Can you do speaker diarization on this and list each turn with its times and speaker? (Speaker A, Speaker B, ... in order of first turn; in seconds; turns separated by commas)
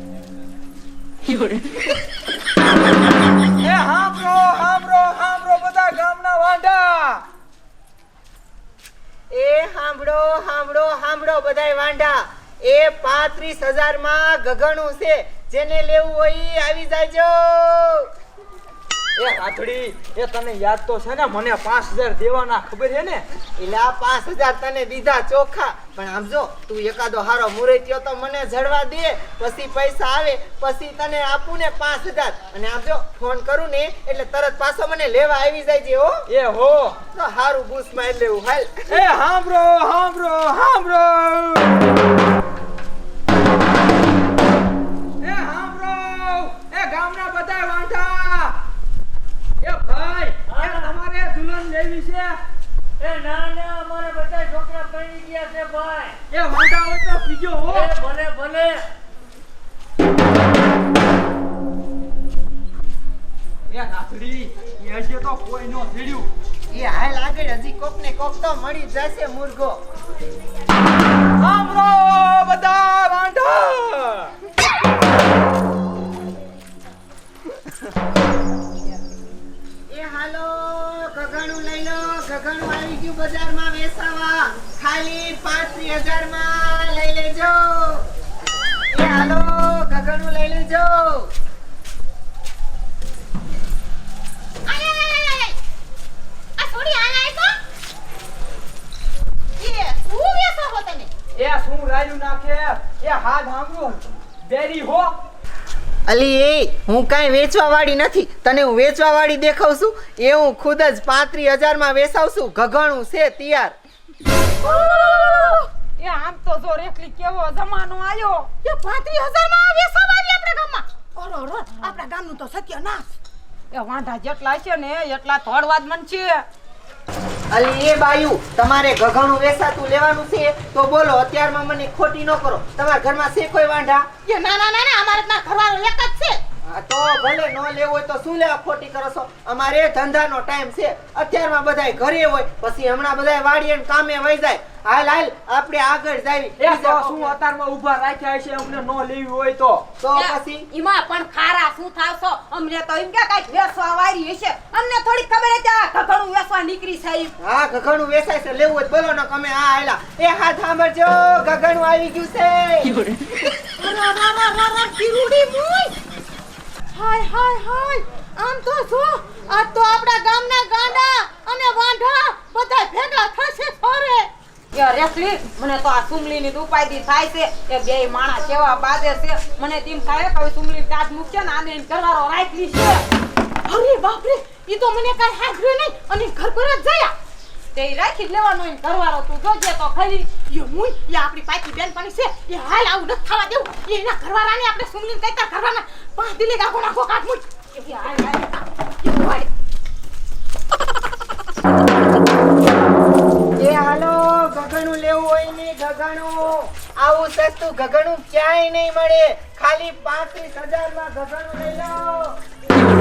Speaker A: 3.6-7.2, Speaker B: 9.3-18.1, Speaker A: 19.1-23.2, Speaker B: 23.6-36.2, Speaker A: 36.3-37.0, Speaker B: 37.1-39.0, Speaker A: 38.9-41.8, Speaker A: 45.2-48.6, Speaker A: 49.6-52.4, Speaker C: 50.5-50.9, Speaker C: 53.0-56.1, Speaker A: 56.3-57.9, Speaker C: 57.7-58.8, Speaker A: 63.7-66.3, Speaker B: 66.7-69.8, Speaker A: 71.4-74.3, Speaker B: 79.9-88.0, Speaker B: 88.9-91.3, Speaker D: 94.7-95.6, Speaker D: 96.6-97.6, Speaker D: 99.6-101.1, Speaker A: 101.3-105.1, Speaker B: 106.1-113.8, Speaker D: 114.6-115.6, Speaker E: 116.0-118.5, Speaker D: 118.6-123.1, Speaker E: 121.6-122.0, Speaker E: 123.7-126.4, Speaker B: 127.5-134.1, Speaker D: 134.2-136.4, Speaker B: 136.7-147.3, Speaker A: 146.6-149.9, Speaker B: 150.0-150.7, Speaker E: 150.2-157.3, Speaker B: 157.4-163.0, Speaker D: 163.8-165.9, Speaker D: 166.9-174.3, Speaker E: 174.7-183.0, Speaker D: 183.6-187.1, Speaker E: 187.7-190.3, Speaker D: 190.4-197.6, Speaker E: 197.7-198.2, Speaker D: 198.2-199.5, Speaker B: 203.6-212.3